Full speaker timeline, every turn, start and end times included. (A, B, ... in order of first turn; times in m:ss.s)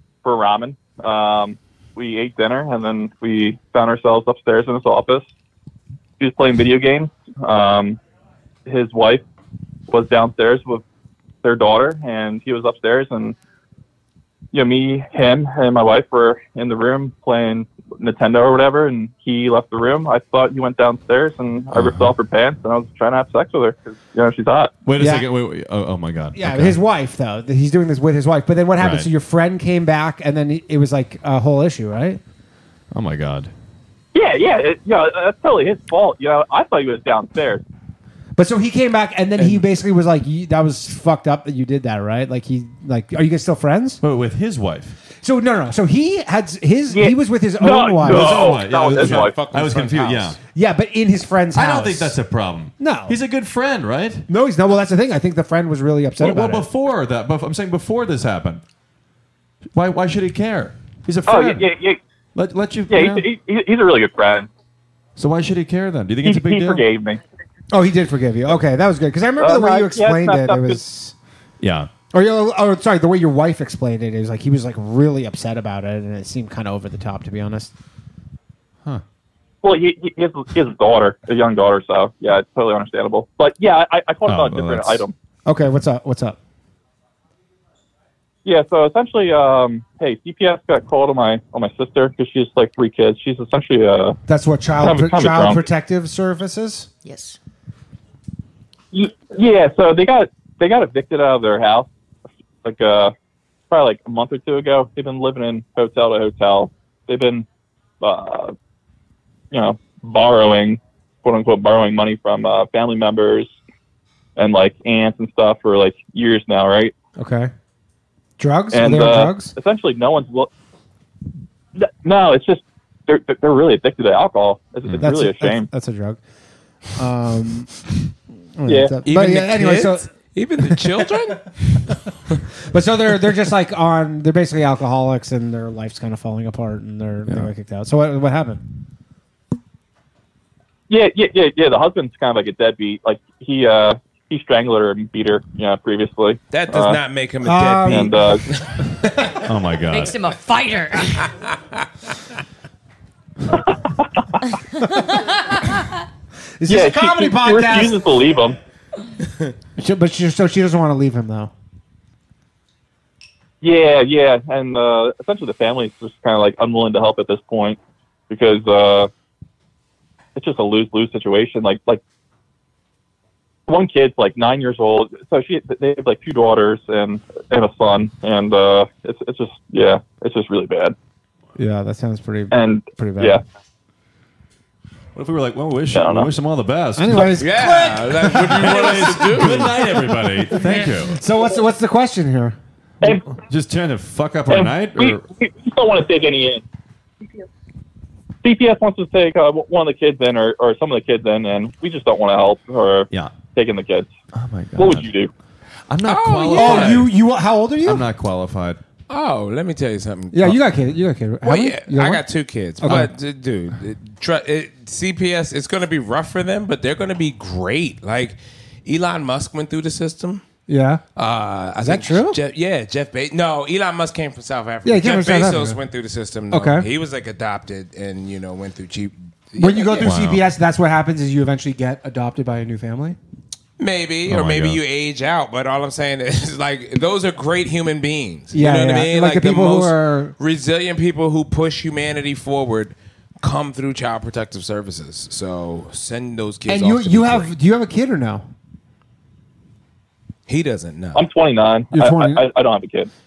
0:00.2-0:05.2 A
0:06.2-0:08.0 A
0:08.6-0:09.2 A
0:09.9-0:10.8 A
0:11.4-0:13.3 A
0:14.5-0:24.7 A
0:21.7-0:22.1 B
0:24.8-0:26.8 B
0:25.0-0:25.2 C
0:26.3-0:32.2 C
0:28.8-0:29.1 B
0:32.9-0:33.5 B
0:34.1-0:37.6 A
0:38.4-0:44.0 C
0:44.0-0:45.0 B
0:45.2-0:48.5 C
0:46.9-0:49.3 A
0:48.0-0:50.4 B
0:48.9-0:50.4 D
0:50.5-0:52.2 C
0:51.5-0:54.2 B
0:52.8-0:53.2 C
0:54.3-0:56.6 C
0:56.2-0:58.6 B
0:59.7-1:01.7 B
1:01.3-1:02.0 A
1:02.3-1:03.2 B
1:02.9-1:04.5 A
1:05.2-1:06.8 B
1:06.2-1:07.2 A
1:07.7-1:11.1 C
1:09.4-1:10.8 A
1:11.6-1:11.9 B
1:12.1-1:17.7 C
1:19.6-1:25.1 A
1:24.2-1:25.0 B
1:25.4-1:26.4 C
1:28.4-1:34.2 A
1:34.3-1:36.9 C
1:34.8-1:35.6 A
1:37.0-1:37.4 E
1:38.9-1:41.9 A
1:42.6-1:43.1 A
1:43.7-1:47.4 A
1:48.0-1:48.5 A
1:49.5-1:53.5 A
1:54.4-1:56.9 A
1:57.2-1:57.5 C
1:58.4-1:59.5 C
1:58.7-2:00.5 A
2:01.8-2:05.7 A
2:05.0-2:06.2 C
2:06.9-2:07.8 C
2:08.6-2:10.1 C
2:08.7-2:08.9 A
2:09.0-2:11.5 D
2:12.7-2:18.6 C
2:20.9-2:27.0 A
2:26.5-2:29.3 D
2:27.4-2:28.2 C
2:27.9-2:28.4 A
2:29.4-2:30.2 B
2:29.8-2:31.3 E
2:34.8-2:35.8 E
2:36.6-2:38.0 C
2:36.7-2:38.6 A
2:39.8-2:41.5 C
2:43.6-2:47.8 A
2:48.3-2:49.1 A
2:50.4-2:52.0 A
2:53.7-3:00.9 A
3:01.6-3:03.4 C
3:02.5-3:03.4 A
3:05.1-3:07.4 B
3:05.9-3:06.3 A
3:07.0-3:12.6 C
3:07.4-3:09.7 D
3:08.3-3:11.2 B
3:13.4-3:15.2 B
3:14.5-3:16.6 A
3:18.4-3:24.1 A
3:24.3-3:25.1 B
3:24.8-3:25.3 A
3:25.9-3:27.1 B
3:26.0-3:27.1 D
3:26.5-3:28.0 C
3:27.8-3:28.8 B
3:29.1-3:30.6 D
3:30.3-3:32.2 C
3:31.4-3:40.4 D
3:32.8-3:33.1 C
3:40.7-3:41.0 C
3:41.2-3:50.2 D
3:41.8-3:42.4 C
3:44.8-3:45.8 C
3:46.5-3:46.9 C
3:49.6-3:53.2 C
3:50.0-3:50.4 B
3:53.8-4:07.5 D
3:54.3-3:54.8 B
3:58.5-4:00.3 C
4:06.7-4:08.4 C
4:10.5-4:11.2 D
4:11.1-4:13.1 A
4:11.9-4:12.4 C